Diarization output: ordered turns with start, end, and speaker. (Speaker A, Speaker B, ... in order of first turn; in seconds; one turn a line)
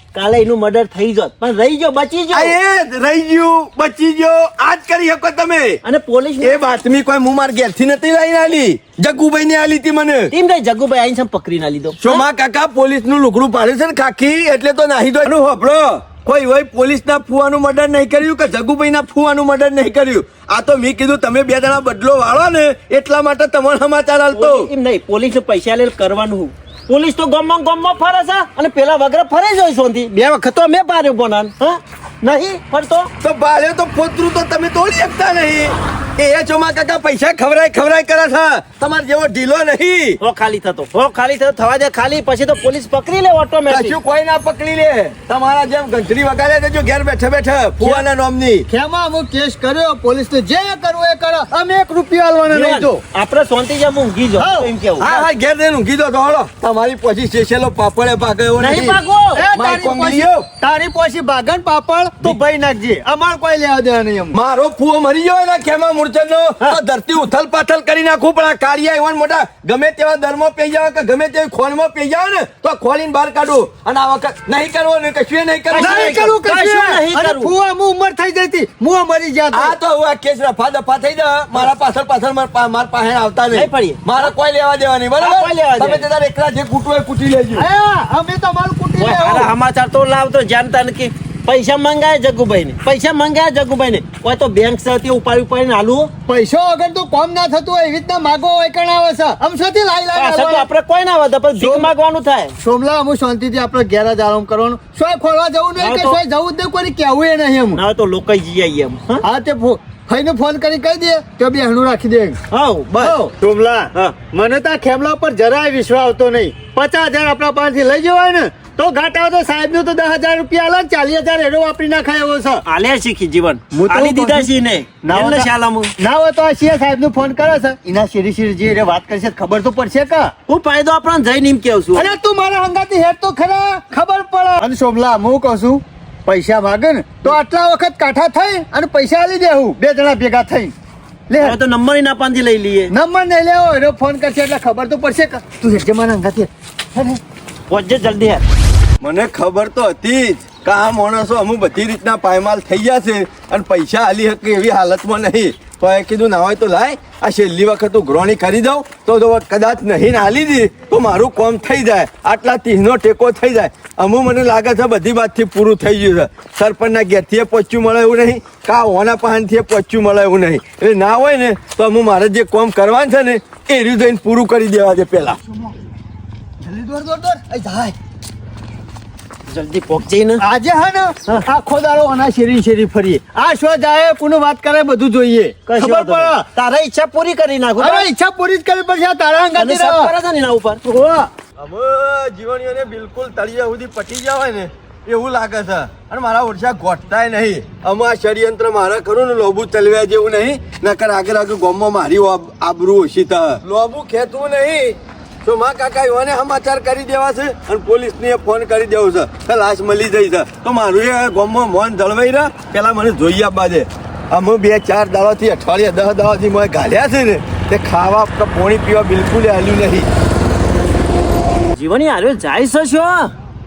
Speaker A: 0.1-2.6
Speaker B: 2.3-5.8
Speaker A: 5.8-6.6
Speaker B: 6.4-10.3
Speaker A: 10.3-12.2
Speaker B: 12.0-24.7
Speaker A: 24.3-33.1
Speaker B: 33.2-40.2
Speaker A: 40.2-44.0
Speaker B: 43.7-48.7
Speaker C: 48.7-53.0
Speaker A: 52.5-55.3
Speaker C: 54.4-54.7
Speaker B: 55.0-59.0
Speaker A: 58.6-59.4
Speaker C: 59.4-64.4
Speaker B: 59.5-60.5
Speaker B: 64.3-76.3
Speaker A: 75.7-77.5
Speaker C: 75.8-79.8
Speaker B: 79.5-87.7
Speaker A: 83.5-84.0
Speaker A: 85.2-86.1
Speaker C: 87.5-89.5
Speaker A: 89.0-96.1
Speaker C: 96.3-100.7
Speaker A: 100.2-102.5
Speaker C: 101.6-101.9
Speaker C: 102.6-107.8
Speaker A: 105.8-106.2
Speaker A: 107.8-109.2
Speaker C: 109.2-112.4
Speaker A: 112.5-113.2
Speaker C: 113.0-122.6
Speaker A: 122.7-125.9
Speaker C: 123.7-124.5
Speaker C: 125.0-130.3
Speaker A: 130.5-132.1
Speaker C: 131.9-140.7
Speaker C: 141.3-141.6
Speaker A: 141.4-142.9
Speaker C: 142.9-147.2
Speaker A: 147.7-148.4
Speaker B: 149.0-175.4
Speaker C: 176.6-177.9
Speaker A: 179.5-180.4
Speaker C: 180.4-186.5
Speaker A: 185.7-188.1
Speaker C: 187.8-190.1
Speaker A: 189.6-190.8
Speaker C: 190.8-191.3
Speaker B: 191.6-220.1
Speaker A: 221.8-223.3